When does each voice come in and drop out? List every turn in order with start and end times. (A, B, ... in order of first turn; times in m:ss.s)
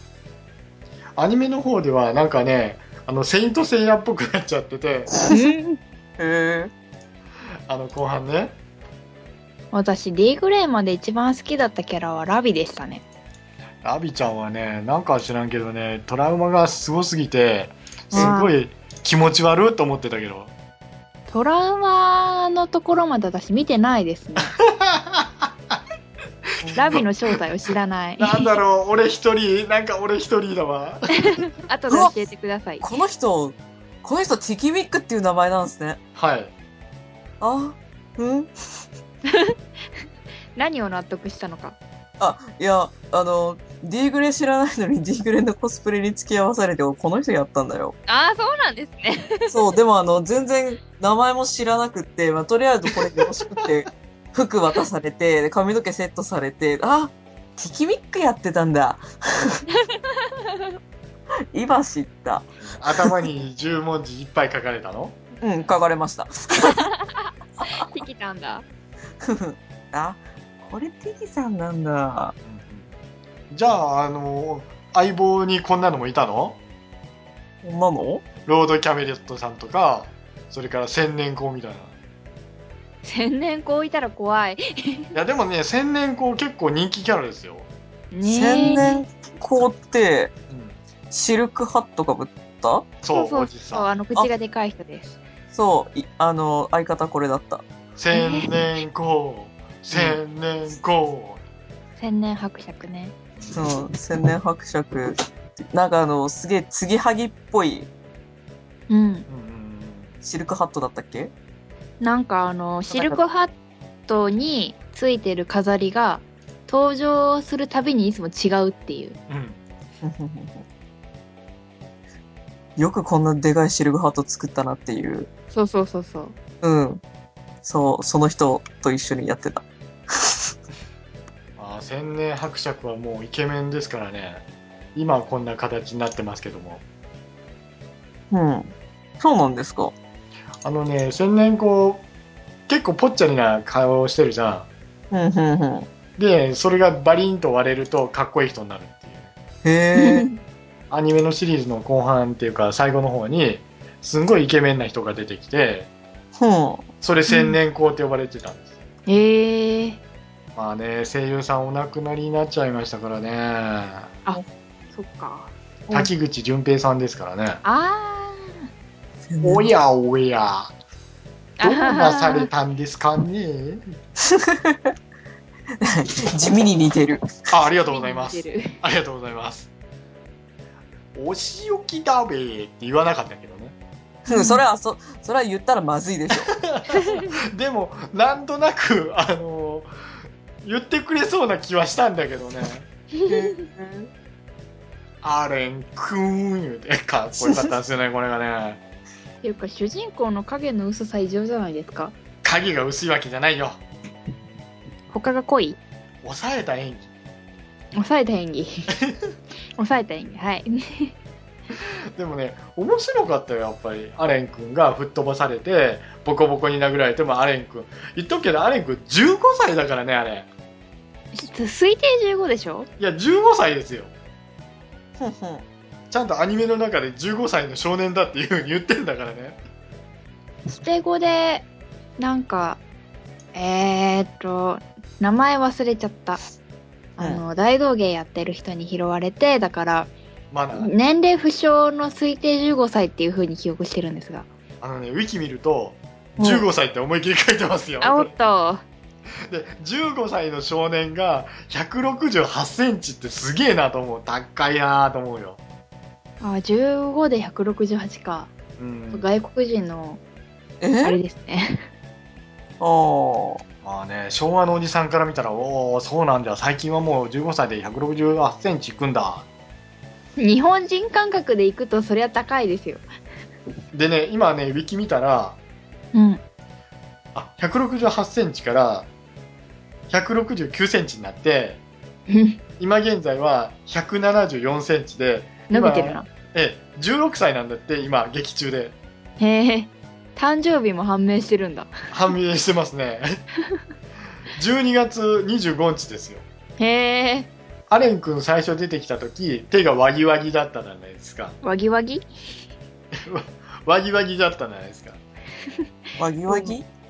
0:01.2-0:05.1 A
0:05.2-0:05.5 B
0:05.3-0:05.8 C
0:06.2-0:06.7 B
0:07.7-0:08.5 A
0:09.7-0:13.0 C
0:13.8-0:20.5 A
0:18.1-0:18.5 C
0:21.3-0:24.6 C
0:24.4-0:25.8 A
0:26.6-0:27.0 B
0:26.7-0:27.0 A
0:26.8-0:28.6 C
0:28.2-0:31.4 A
0:31.4-0:32.9 C
0:31.9-0:32.1 B
0:32.8-0:36.0 B
0:36.2-0:36.5 A
0:37.4-0:38.9 B
0:39.3-0:39.5 C
0:40.6-0:41.8 C
0:42.2-0:48.0 B
0:48.1-0:49.6 C
0:49.5-0:59.6 B
0:59.8-1:00.4 C
1:01.5-1:02.5 B
1:02.6-1:05.2 A
1:05.4-1:06.9 B
1:06.6-1:08.6 C
1:09.2-1:12.3 B
1:12.4-1:12.9 A
1:13.5-1:16.6 A
1:17.6-1:18.2 B
1:18.4-1:21.9 A
1:23.0-1:25.1 C
1:25.1-1:27.7 A
1:28.1-1:29.0 C
1:28.2-1:30.3 B
1:30.5-1:30.8 A
1:31.1-1:32.9 B
1:33.0-1:33.9 A
1:33.1-1:35.2 C
1:35.5-1:37.6 B
1:38.0-1:41.4 A
1:38.1-1:38.6 C
1:39.9-1:40.2 B
1:42.0-1:43.1 C
1:43.4-1:43.6 A
1:43.5-1:45.2 B
1:45.7-1:47.9 B
1:48.9-1:49.3 C
1:49.3-1:50.1 A
1:50.2-1:51.3 B
1:52.0-1:53.5 C
1:54.1-1:59.2 C
1:59.3-1:59.6 A
2:00.0-2:00.6 B
2:02.8-2:05.3 B
2:05.5-2:06.3 C
2:06.6-2:07.0 B
2:07.6-2:10.5 B
2:11.6-2:14.4 A
2:14.9-2:16.8 A
2:18.3-2:19.9 B
2:20.6-2:22.0 A
2:22.7-2:24.7 A
2:25.1-2:25.9 B
2:26.2-2:29.3 A
2:29.6-2:30.3 B
2:29.9-2:30.3 C
2:30.9-2:35.9 A
2:36.4-2:36.8 B
2:37.0-2:38.7 A
2:37.3-2:37.6 C
2:39.1-2:40.0 C
2:40.6-2:44.2 A
2:44.9-2:46.1 C
2:45.9-2:47.6 A
2:47.6-2:48.7 C
2:49.3-2:49.7 B
2:49.4-2:50.7 A
2:51.6-2:52.5 C
2:51.6-2:53.8 A
2:54.2-2:54.9 B
2:55.8-2:57.3 B
2:57.5-2:59.7 A
2:57.9-2:58.7 C
3:01.1-3:03.7 A
3:04.2-3:06.5 B
3:04.3-3:04.6 C
3:06.4-3:09.9 A
3:06.9-3:07.2 C
3:10.6-3:12.8 A
3:13.2-3:13.5 C
3:13.3-3:14.1 B
3:15.2-3:18.8 A
3:17.4-3:17.7 B
3:19.4-3:22.1 C
3:22.4-3:23.8 A
3:25.1-3:25.8 C
3:26.2-3:27.1 A
3:27.9-3:28.9 C
3:28.9-3:29.3 A
3:29.8-3:31.1 C
3:32.2-3:40.5 A
3:41.3-3:42.9 C
3:43.0-3:44.1 A
3:45.2-3:45.6 B
3:46.1-3:49.6 A
3:50.7-3:51.6 C
3:52.2-3:52.8 C
3:53.5-3:56.4 C
3:57.2-4:00.1 C
4:00.5-4:00.9 A
4:00.7-4:04.5 C
4:04.8-4:08.3 A
4:08.0-4:08.8 C
4:09.5-4:15.6 A
4:16.4-4:18.5 C
4:18.8-4:19.3 A
4:19.1-4:20.2 C
4:20.8-4:21.2 B
4:21.0-4:21.8 C
4:22.8-4:23.6 B
4:23.8-4:29.4 A
4:30.4-4:33.1 C
4:33.9-4:35.6 A
4:36.1-4:36.4 C
4:37.3-4:39.1 A
4:40.1-4:41.8 A
4:42.3-4:42.6 C
4:42.8-4:48.9 A
4:45.7-4:46.2 C
4:49.4-4:51.9 C
4:52.1-4:53.4 A
4:54.6-4:56.4 A
4:56.8-4:57.5 C
4:57.9-5:01.5 A
5:01.6-5:02.3 C
5:03.1-5:05.2 A
5:06.2-5:06.8 B
5:06.5-5:06.7 C